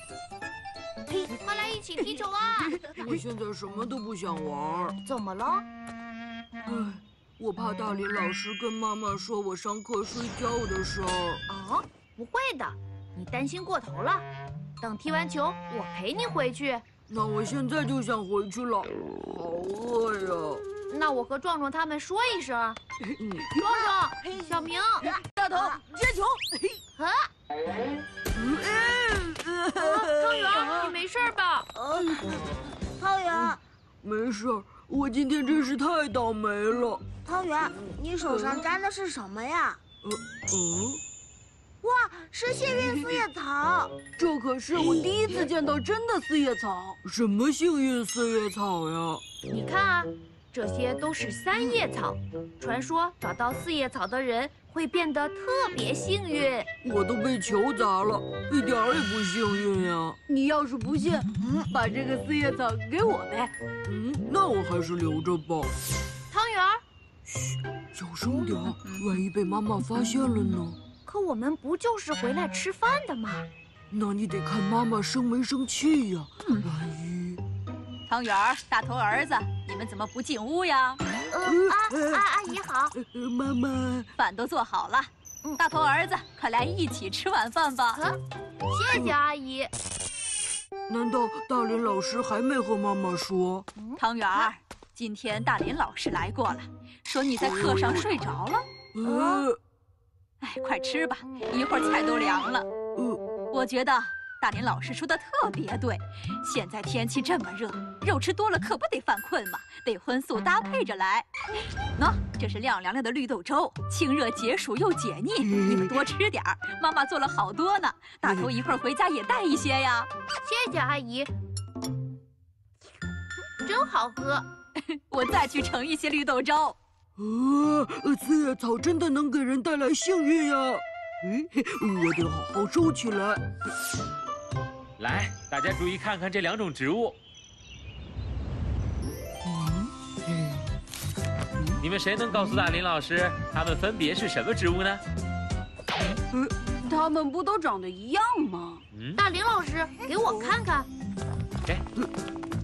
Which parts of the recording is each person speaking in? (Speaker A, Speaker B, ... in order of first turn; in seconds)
Speaker A: 1.1-2.9, 5.0-5.7, 11.5-14.2, 14.8-16.8, 20.9-22.8, 23.5-25.1, 26.9-27.3, 29.7-31.7, 49.5-56.7, 66.3-66.8, 71.0-73.5, 81.3-82.9, 87.9-88.2, 88.7-89.7, 93.8-94.5, 99.0-99.5, 120.4-121.3, 123.6-124.5, 149.2-150.9
Speaker B: 2.8-5.0, 6.7-11.4, 17.1-20.6, 23.1-23.5, 28.3-30.6, 34.0-37.0, 40.0-41.0, 44.1-45.1, 47.0-49.2, 56.8-60.2, 63.9-65.7, 67.3-70.8, 73.9-77.4, 81.4-82.2, 82.9-84.1, 90.9-93.7, 98.9-99.6, 103.0-103.2, 115.4-115.8, 127.2-133.4, 139.4-140.6
Speaker C: 23.6-25.8, 30.5-30.9, 31.7-33.6, 37.2-39.8, 41.8-44.0
Speaker D: 25.4-26.8, 44.7-47.0, 60.3-63.5, 146.8-148.8
Speaker E: 68.8-69.2, 78.1-81.0, 84.2-88.0, 94.0-98.6, 100.4-102.7, 103.5-111.3, 112.0-120.1, 125.1-126.8
Speaker F: 135.0-137.2, 141.8-145.0, 148.9-149.2